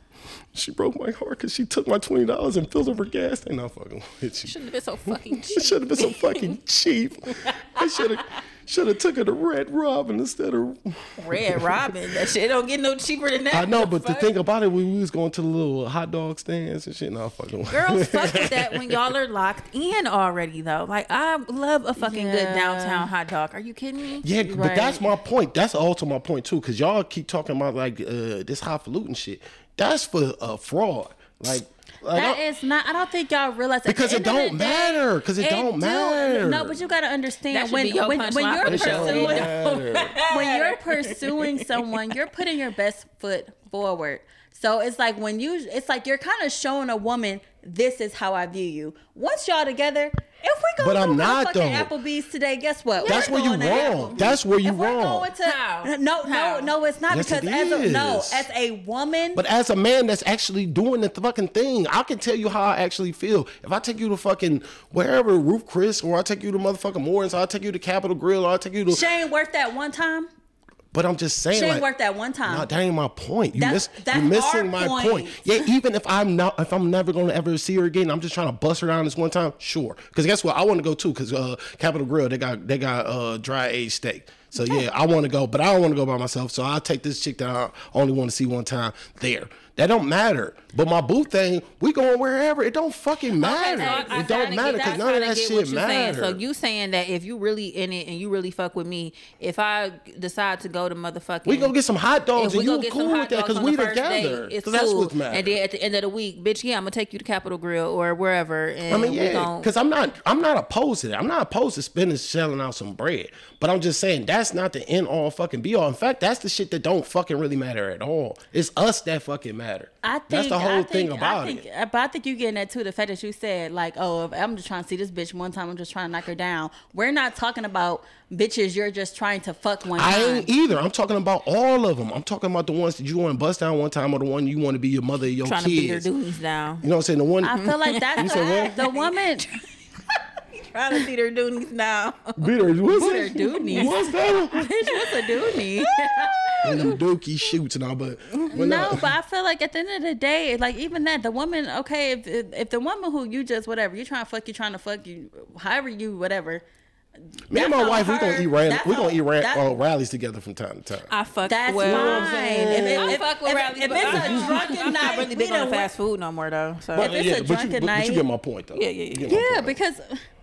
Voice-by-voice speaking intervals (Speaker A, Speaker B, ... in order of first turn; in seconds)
Speaker A: 0.4-4.5, 5.1-11.9, 13.5-19.0, 24.2-32.4, 33.9-36.8, 38.6-40.2, 50.8-51.9, 53.0-55.3, 57.1-58.5, 59.3-69.0, 70.9-71.8, 72.5-96.4, 101.4-105.6, 108.9-121.6, 129.9-136.1, 136.8-137.7, 138.2-138.8, 142.4-144.7, 146.6-149.1, 157.5-161.1, 161.8-163.2, 164.0-164.7, 167.0-169.8
Speaker B: 4.5-6.6, 7.4-8.4, 11.2-14.3, 17.7-24.2, 37.5-42.3, 52.9-54.3, 55.4-56.7, 93.4-101.7, 102.4-109.7, 135.4-136.8, 137.6-139.6, 140.5-142.4, 142.9-144.0, 144.8-147.0, 161.1-167.1, 168.7-169.4
Speaker C: 22.0-23.1, 24.4-25.0, 32.1-39.5, 40.3-59.4, 68.9-70.3, 71.5-72.7, 73.5-75.7, 93.8-94.3, 120.0-130.5, 137.4-139.5, 142.9-146.9, 148.5-156.6, 157.5-159.6, 161.5-165.9, 166.9-168.2, 169.3-170.2